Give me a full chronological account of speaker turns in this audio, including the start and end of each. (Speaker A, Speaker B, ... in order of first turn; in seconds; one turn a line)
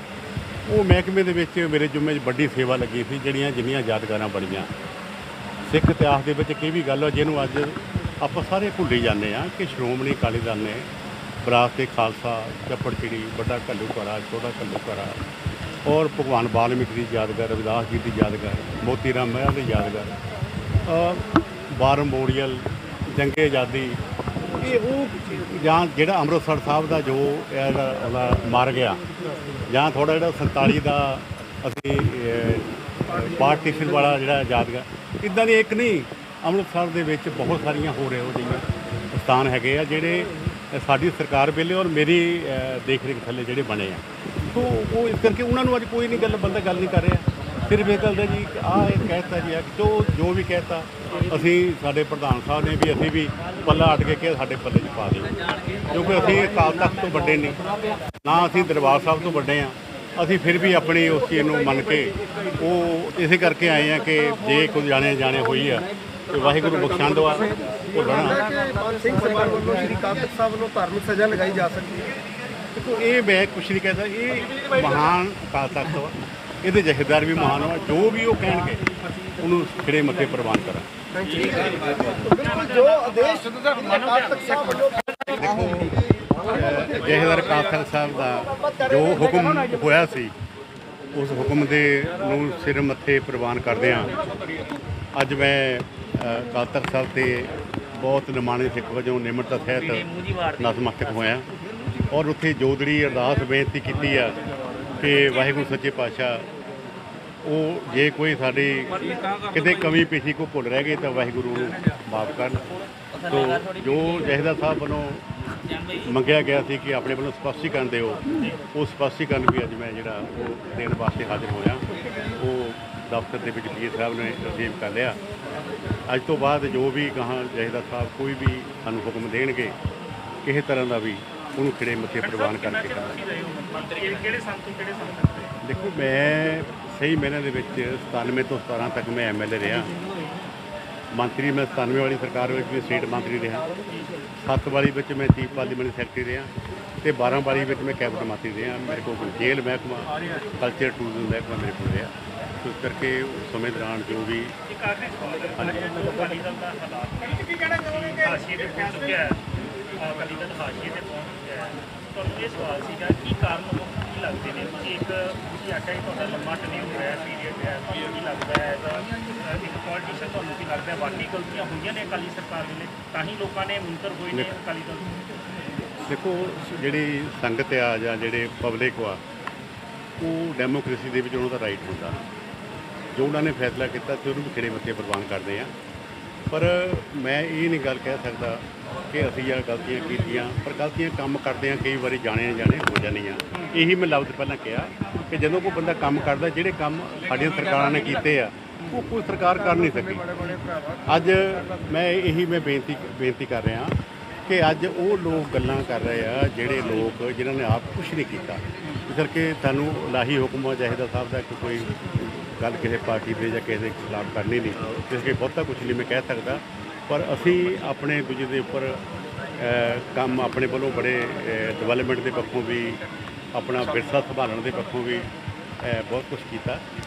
Speaker A: 0.7-4.7
Speaker A: 5.7-10.9
Speaker A: 11.4-15.2
Speaker A: 15.8-20.1
Speaker A: 20.9-24.0
Speaker A: 24.6-29.0
Speaker A: 29.7-32.7
Speaker A: 33.2-55.3
Speaker A: 55.9-57.6
Speaker A: 58.2-68.4
Speaker B: 68.1-72.1
Speaker A: 72.8-78.8
Speaker A: 79.4-80.9
Speaker B: 81.2-85.3
Speaker C: 82.5-83.2
Speaker A: 85.4-85.9
Speaker A: 86.5-90.3
Speaker A: 91.1-94.1
Speaker A: 95.2-101.5
Speaker A: 102.1-104.4
Speaker A: 105.0-106.5
Speaker A: 107.4-112.7
Speaker A: 113.2-115.2
Speaker A: 116.0-118.2
Speaker A: 118.7-121.8
Speaker A: 122.4-125.2
Speaker A: 126.1-129.8
Speaker A: 130.4-133.2
Speaker C: 132.2-135.5
Speaker A: 135.6-139.9
Speaker A: 141.1-143.7
Speaker A: 144.4-146.5
Speaker A: 147.0-154.5
Speaker C: 154.7-159.4
Speaker C: 160.0-175.3
Speaker A: 176.1-179.2
Speaker A: 180.2-182.2
Speaker A: 183.1-185.7
Speaker A: 186.5-200.2
Speaker B: 199.9-201.5
Speaker A: 201.1-203.9
Speaker A: 204.5-219.0
Speaker A: 219.6-223.0
Speaker A: 223.5-225.3
Speaker A: 225.8-226.8